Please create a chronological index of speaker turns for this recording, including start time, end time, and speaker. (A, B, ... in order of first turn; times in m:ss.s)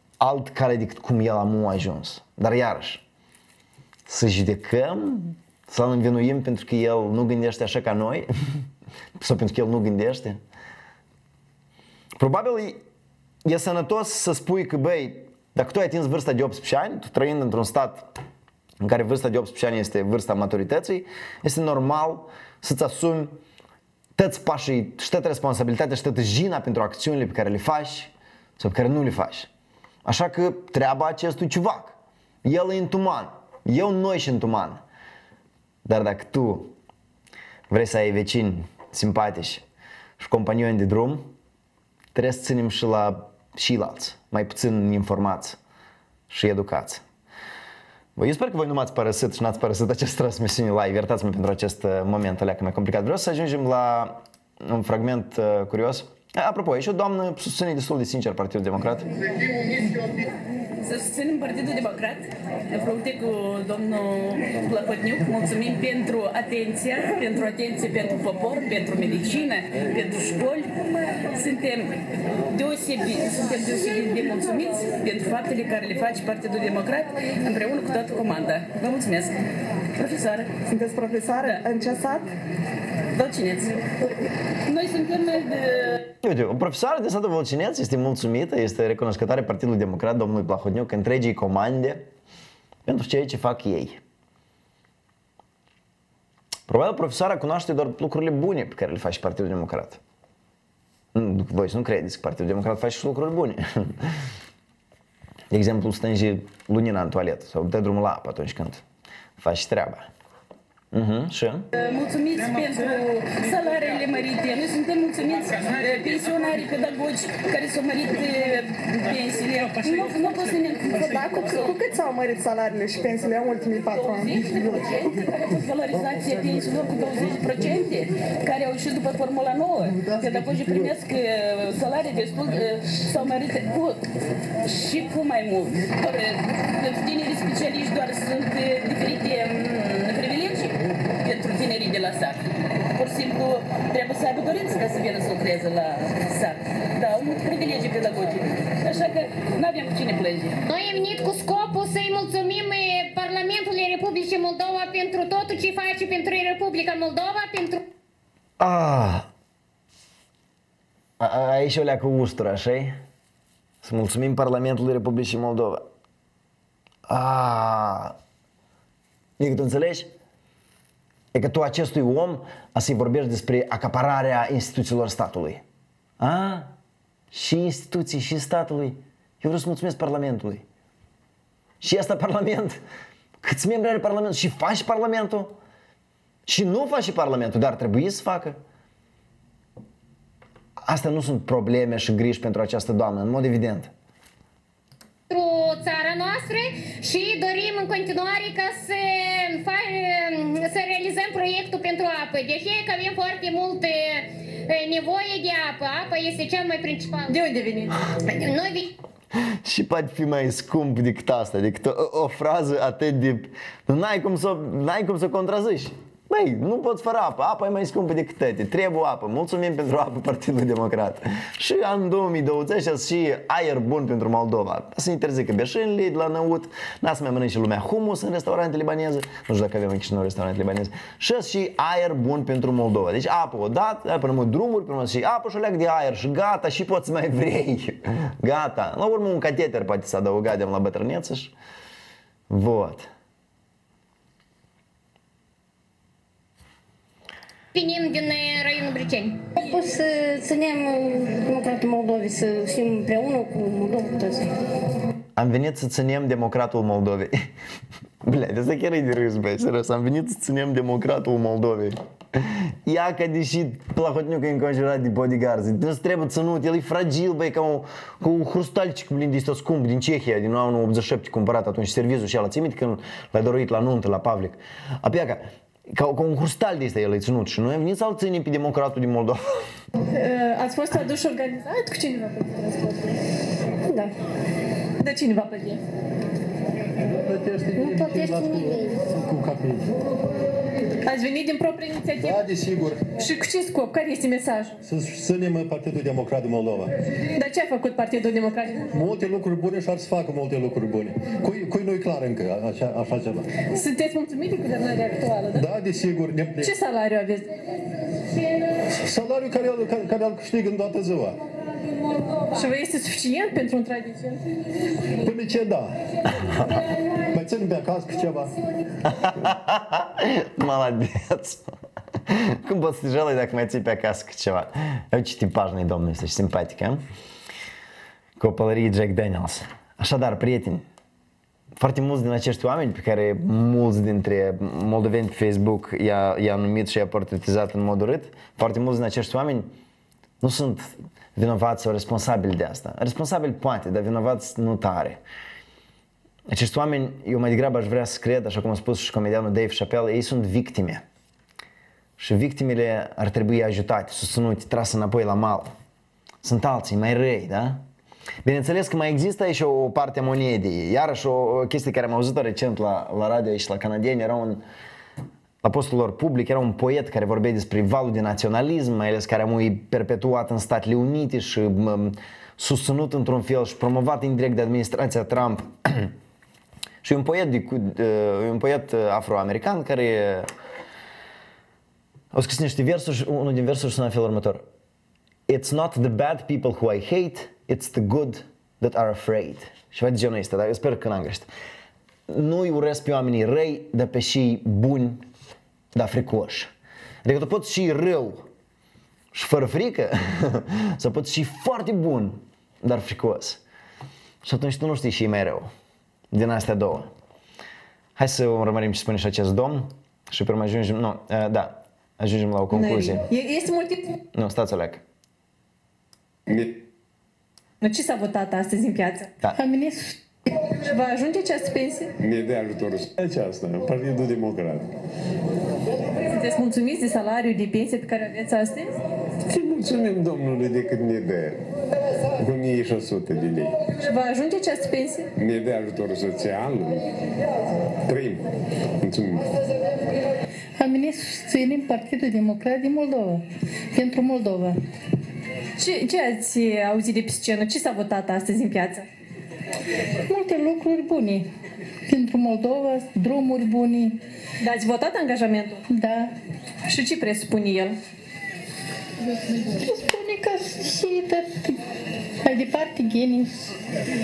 0:00.2-0:03.0 A
0:04.1-0:08.3 A
0:09.2-0:10.4 A
0:12.2-0:12.8 A
0:13.4-0:18.0 A
0:18.8-0:23.4 A
0:24.2-0:29.5 A
0:30.0-0:34.8 A
0:35.8-0:36.7 A
0:37.7-0:39.6 A
0:40.2-0:41.3 A
0:42.2-0:45.6 A
0:46.3-0:47.0 A
0:48.2-0:59.1 A
1:00.8-1:12.0 B
1:12.5-1:19.4 B
1:20.0-1:20.6 B
1:20.7-1:22.3 C
1:23.2-1:23.8 B
1:24.7-1:26.0 B
1:26.2-1:32.1 A
1:32.9-1:34.0 A
1:36.7-1:40.0 A
1:41.1-1:44.0 A
1:45.5-1:48.8 A
1:49.4-1:50.1 A
1:50.9-1:51.7 A
1:51.7-2:01.7 B
2:00.9-2:04.9 C
2:04.0-2:14.1 B
2:14.6-2:22.4 B
2:23.0-2:30.6 B
2:30.7-2:37.8 D
2:38.6-2:39.3 A
2:41.2-2:43.0 A
2:43.8-2:45.8 A
2:47.1-2:48.2 A
2:49.4-2:50.1 A
2:51.3-2:55.6 A
2:56.2-2:56.7 A
2:57.3-3:00.6 A
3:01.8-3:02.8 A
3:03.4-3:05.6 A
3:06.5-3:08.6 A
3:10.8-3:13.9 A
3:15.3-3:27.5 D
3:27.3-3:28.0 E
3:28.1-3:29.0 D
3:29.6-4:01.5 A
4:02.5-4:03.1 A
4:07.7-4:09.4 D
4:09.6-4:14.5 F
4:15.4-4:17.3 A
4:18.2-4:22.0 A
4:22.8-4:39.4 A
4:40.2-4:43.2 E
4:43.9-4:44.1 F
4:45.0-4:45.8 E
4:47.1-4:50.0 G
4:47.8-4:49.0 F
4:51.0-4:52.4 E
4:52.2-4:53.0 G
4:53.1-4:54.8 E
4:54.8-4:56.9 G
4:57.4-4:59.0 E
4:58.9-5:03.5 G
5:03.6-5:05.7 E
5:05.6-5:06.7 G
5:06.6-5:07.6 E
5:09.0-5:11.4 G
5:12.5-5:14.7 E
5:15.2-5:16.6 G
5:17.3-5:18.5 G
5:19.0-5:21.6 A
5:22.3-5:27.0 A
5:28.4-5:30.8 A
5:31.8-5:39.7 A
5:40.4-5:45.2 A
5:46.5-5:51.0 A
5:52.2-5:55.7 A
5:56.4-5:57.8 A
5:58.4-6:04.6 A
6:05.6-6:16.1 A
6:17.0-6:20.5 A
6:22.3-6:24.6 A
6:25.5-6:31.5 A
6:32.3-6:35.3 A
6:36.0-6:36.7 A
6:37.2-6:38.5 A
6:39.3-6:43.6 A
6:44.4-6:45.7 A
6:46.3-6:47.1 A
6:48.2-6:53.2 A
6:52.7-6:54.2 E
6:54.3-6:55.0 A
6:56.5-6:56.8 H
6:57.8-6:59.3 E
6:59.6-7:00.2 I
7:00.7-7:02.1 E
7:02.2-7:04.9 H
7:06.3-7:09.0 E
7:09.5-7:11.6 H
7:12.4-7:13.8 H
7:14.0-7:15.3 E
7:15.4-7:17.1 H
7:18.1-7:18.5 H
7:19.0-7:19.5 H
7:20.8-7:24.8 I
7:25.8-7:29.1 E
7:30.2-7:31.5 I
7:32.1-7:34.2 I
7:34.6-7:35.8 E
7:35.9-7:36.3 I
7:36.8-7:38.0 E
7:39.7-7:41.8 I
7:42.4-7:43.5 I